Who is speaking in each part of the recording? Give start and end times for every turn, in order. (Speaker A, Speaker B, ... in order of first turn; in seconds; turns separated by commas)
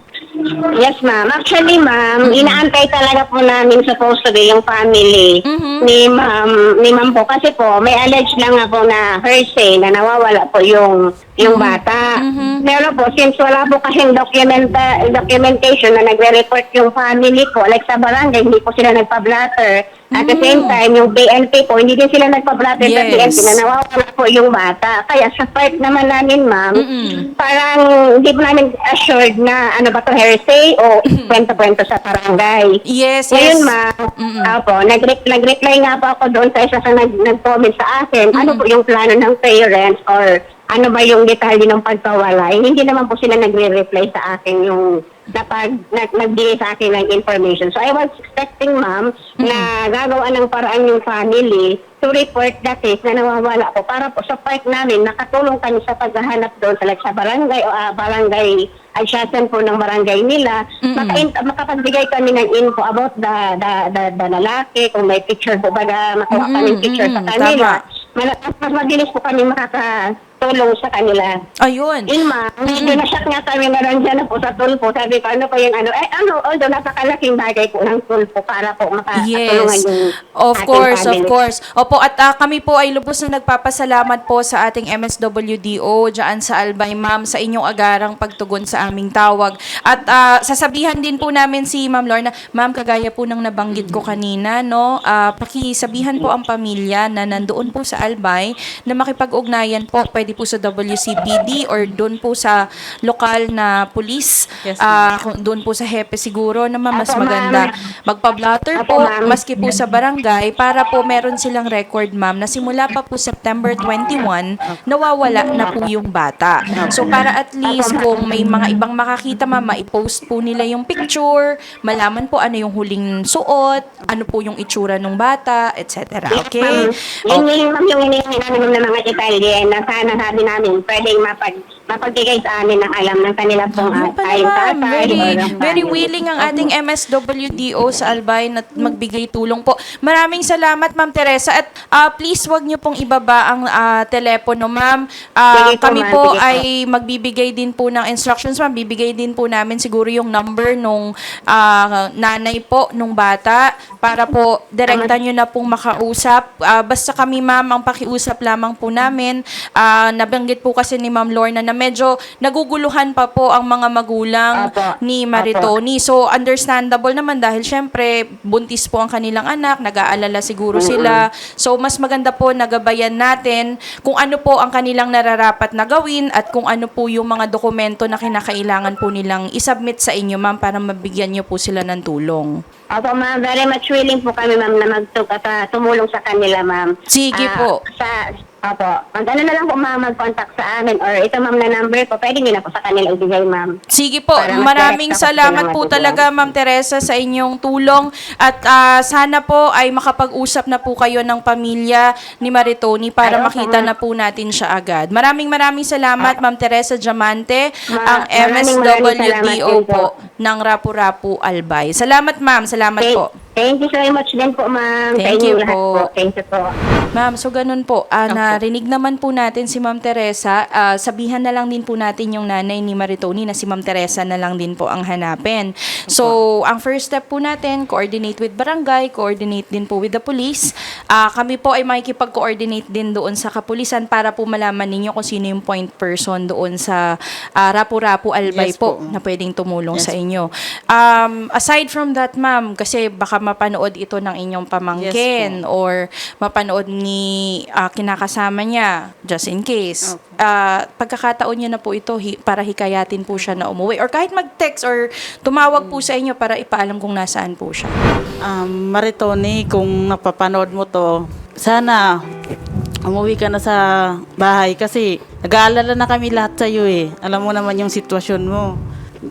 Speaker A: 0.3-5.3, Speaker B: 2.2-2.6, Speaker B: 5.5-5.9, Speaker A: 5.8-12.0, Speaker B: 11.4-12.6, Speaker A: 12.6-32.7, Speaker B: 20.1-20.8, Speaker B: 22.8-23.6, Speaker B: 26.8-27.2, Speaker B: 31.1-31.4, Speaker B: 32.9-34.5, Speaker A: 33.3-71.3, Speaker B: 38.3-38.6, Speaker B: 49.4-49.7, Speaker B: 60.8-61.3, Speaker B: 66.3-67.8, Speaker B: 71.6-72.1, Speaker A: 72.1-81.3, Speaker B: 72.6-73.0, Speaker B: 79.1-79.8, Speaker B: 80.4-127.4, Speaker C: 104.6-105.1, Speaker A: 106.9-107.7, Speaker A: 108.8-109.4, Speaker A: 115.5-115.7, Speaker C: 116.8-117.1, Speaker A: 117.7-118.5, Speaker A: 126.3-136.6, Speaker B: 133.7-182.5, Speaker A: 145.5-146.6, Speaker A: 164.5-165.7, Speaker A: 170.8-171.2, Speaker A: 182.9-193.7, Speaker B: 187.1-187.8, Speaker B: 193.9-213.3, Speaker A: 194.4-196.2, Speaker A: 203.2-203.9, Speaker A: 207.9-210.0, Speaker A: 213.0-216.7, Speaker B: 215.2-216.0, Speaker B: 217.1-237.0, Speaker C: 218.3-218.6, Speaker C: 226.1-226.4, Speaker B: 237.6-257.9, Speaker C: 238.5-239.1, Speaker C: 245.0-245.6, Speaker C: 250.1-250.4, Speaker C: 258.4-262.0, Speaker C: 263.1-268.7